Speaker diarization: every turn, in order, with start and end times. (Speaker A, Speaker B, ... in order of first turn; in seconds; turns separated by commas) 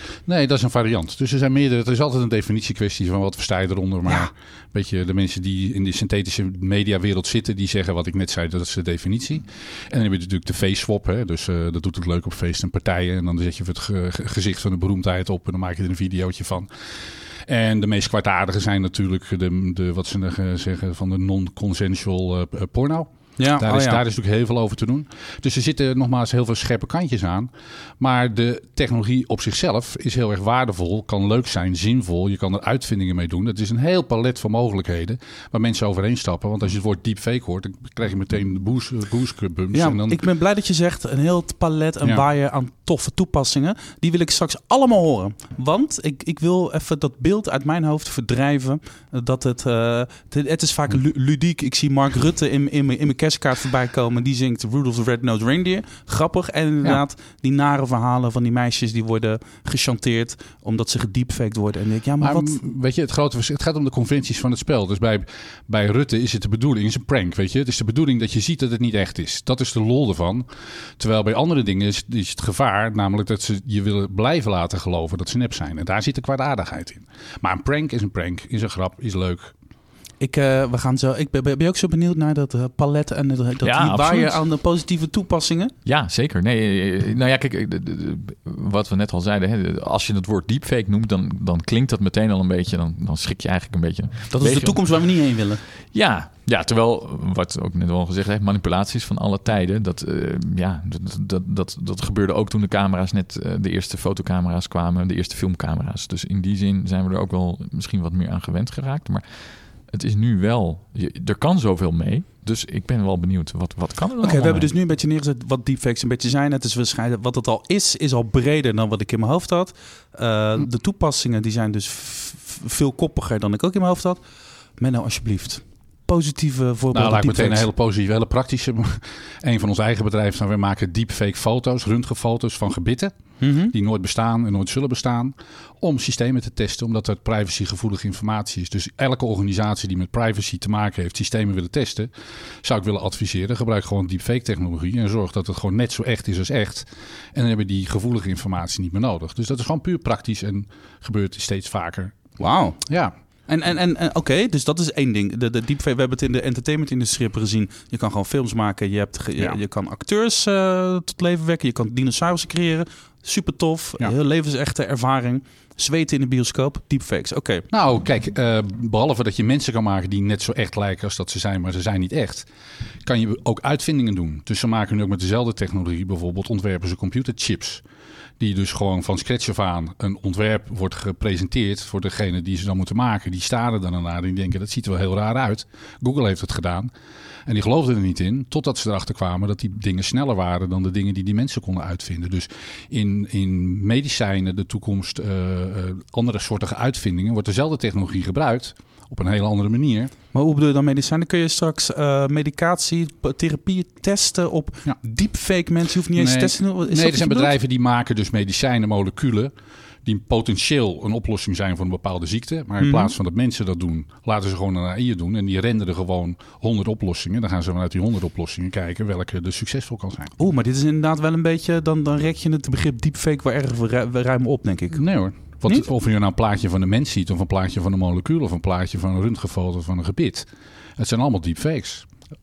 Speaker A: 0.3-16.7, Speaker A: 17.5-40.2, Speaker B: 23.4-24.0, Speaker B: 39.7-62.6, Speaker A: 62.2-70.5, Speaker A: 71.0-79.5, Speaker B: 80.2-85.8, Speaker C: 83.6-84.4, Speaker C: 85.8-94.8, Speaker B: 94.3-95.6, Speaker C: 95.9-114.7, Speaker B: 114.2-124.2, Speaker B: 124.8-127.7, Speaker A: 126.9-133.2, Speaker B: 133.4-133.7, Speaker A: 133.7-153.1, Speaker B: 152.4-152.9, Speaker B: 153.5-167.7, Speaker A: 167.7-172.5, Speaker A: 173.0-177.8, Speaker A: 178.4-186.9, Speaker A: 187.5-200.1, Speaker B: 200.3-207.5, Speaker A: 206.2-209.5, Speaker A: 210.0-220.3, Speaker B: 212.8-213.1, Speaker B: 220.4-225.0, Speaker A: 224.9-232.1